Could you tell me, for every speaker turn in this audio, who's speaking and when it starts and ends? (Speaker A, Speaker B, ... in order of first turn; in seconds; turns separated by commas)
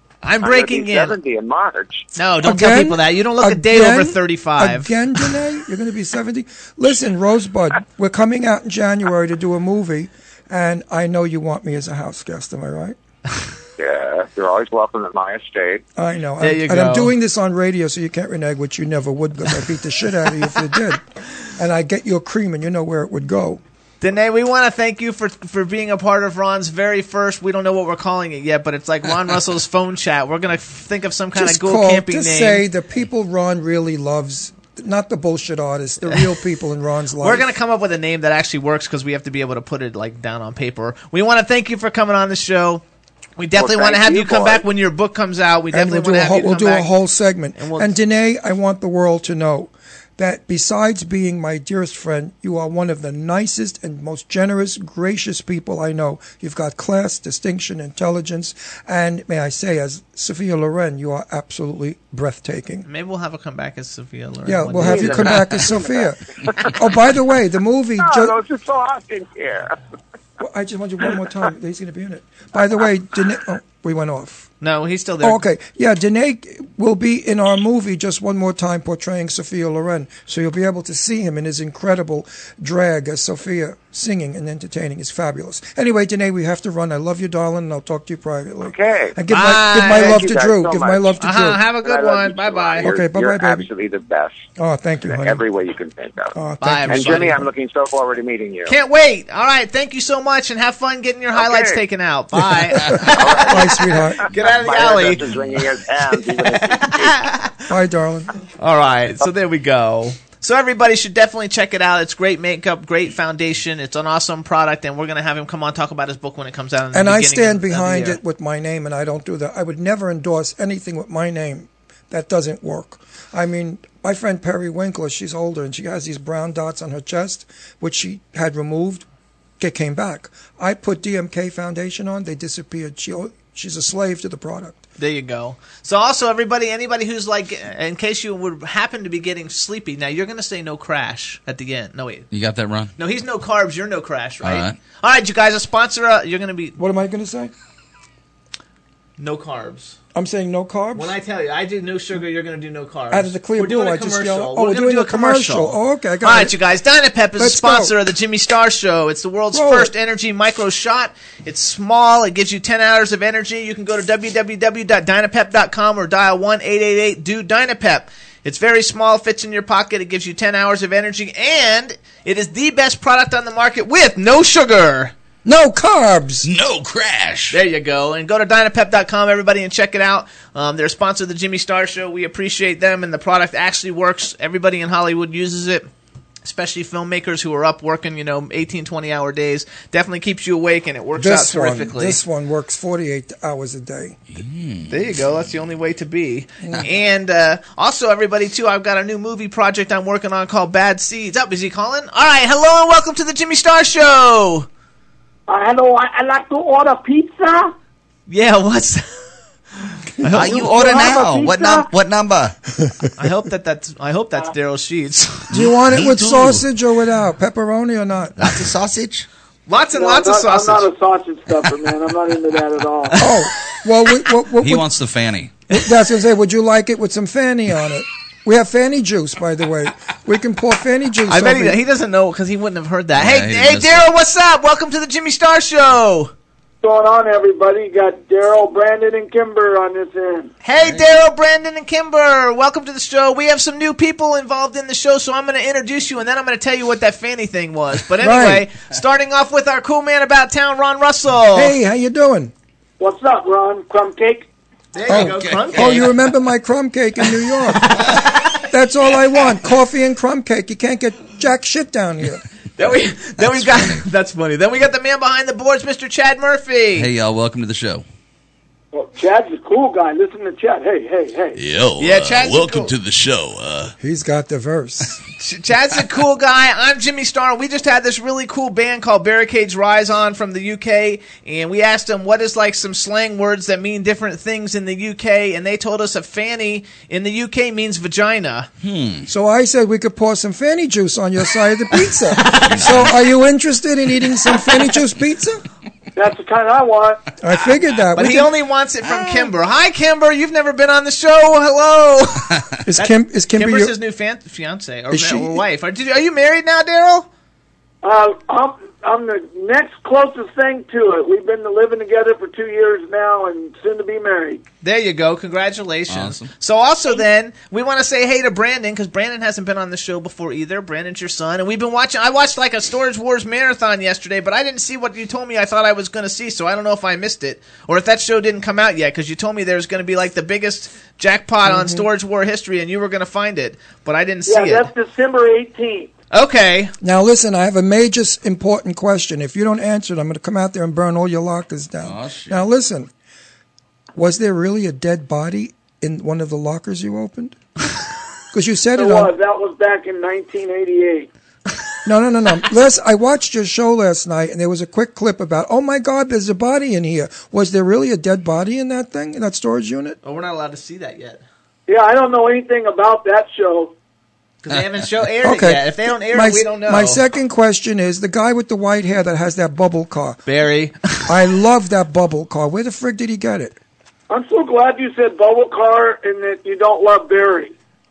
Speaker A: 0.2-1.1, Speaker B: 0.4-2.0, Speaker A: 2.1-4.9, Speaker C: 2.4-13.0, Speaker B: 13.8-15.8, Speaker C: 15.9-21.0, Speaker A: 16.4-17.1, Speaker C: 21.6-23.6, Speaker A: 24.0-32.6, Speaker C: 31.3-37.5, Speaker A: 37.2-42.8, Speaker A: 43.4-46.9, Speaker B: 43.6-44.6, Speaker C: 43.7-44.6, Speaker C: 45.7-62.9, Speaker A: 47.6-47.9, Speaker A: 62.9-65.7, Speaker C: 64.4-68.3, Speaker B: 64.8-66.1, Speaker B: 68.0-69.8, Speaker C: 70.4-74.5, Speaker A: 74.6-75.4, Speaker C: 75.2-91.6, Speaker B: 88.6-89.2, Speaker A: 89.3-90.2, Speaker B: 89.8-91.2, Speaker A: 91.2-92.9, Speaker B: 91.8-94.4, Speaker C: 92.8-93.7, Speaker C: 94.5-95.4, Speaker B: 95.0-96.3, Speaker C: 96.3-97.4, Speaker A: 96.6-97.4, Speaker B: 96.9-98.8, Speaker A: 98.7-105.2, Speaker B: 101.3-101.8, Speaker C: 102.9-104.3, Speaker B: 103.1-107.2, Speaker A: 106.4-107.6, Speaker C: 107.7-108.3, Speaker A: 108.6-118.2, Speaker C: 116.9-129.0, Speaker C: 129.6-134.8, Speaker A: 135.0-142.3, Speaker D: 142.3-142.9, Speaker A: 143.0-146.8, Speaker D: 144.4-144.8, Speaker C: 146.8-147.5, Speaker A: 149.2-150.0, Speaker C: 150.1-151.1, Speaker A: 150.9-175.1, Speaker C: 153.1-156.5, Speaker C: 157.4-157.9, Speaker C: 159.5-159.9, Speaker C: 175.4-176.5, Speaker D: 176.4-177.6, Speaker A: 177.5-185.9, Speaker A: 186.4-192.2, Speaker C: 191.2-194.2, Speaker D: 194.3-195.0, Speaker A: 194.9-204.7, Speaker E: 205.5-207.7, Speaker A: 208.3-209.1, Speaker A: 209.8-211.1, Speaker D: 210.3-212.6, Speaker E: 210.6-211.9, Speaker A: 213.2-215.5, Speaker D: 215.5-216.6, Speaker C: 215.5-218.3, Speaker D: 218.4-219.2, Speaker A: 219.7-220.9, Speaker E: 219.9-223.2, Speaker C: 223.2-224.9, Speaker D: 224.6-225.6, Speaker C: 225.7-231.8, Speaker A: 231.3-236.3, Speaker D: 233.2-234.1, Speaker E: 236.8-240.5, Speaker A: 240.6-251.7, Speaker D: 240.8-241.1, Speaker C: 248.2-248.7, Speaker C: 251.5-252.5, Speaker E: 253.0-254.5, Speaker A: 254.9-256.1, Speaker D: 255.1-256.1, Speaker C: 255.1-257.9, Speaker A: 257.8-258.5, Speaker C: 258.6-262.4, Speaker A: 262.8-267.1, Speaker D: 263.6-264.0, Speaker D: 266.9-268.0, Speaker E: 268.9-271.6, Speaker D: 271.5-273.9, Speaker A: 272.0-272.9, Speaker C: 274.0-275.2, Speaker A: 275.4-288.7, Speaker D: 288.8-289.3, Speaker C: 289.3-295.6, Speaker D: 292.7-293.1, Speaker E: 296.1-297.2, Speaker C: 297.4-298.5, Speaker A: 298.1-307.3, Speaker C: 302.8-303.9, Speaker C: 305.1-305.6, Speaker E: 308.0-314.6, Speaker A: 314.8-334.9, Speaker D: 316.1-316.5, Speaker C: 331.6-332.1, Speaker E: 334.4-336.1, Speaker A: 336.3-336.9, Speaker C: 337.0-343.1, Speaker D: 342.0-342.6, Speaker C: 344.1-347.6, Speaker C: 348.5-349.3, Speaker E: 348.9-351.3, Speaker C: 352.0-360.2, Speaker A: 360.2-361.4, Speaker E: 361.9-363.9, Speaker A: 364.6-367.2, Speaker C: 365.4-370.4, Speaker A: 370.5-371.3, Speaker C: 371.2-373.8, Speaker E: 374.3-377.7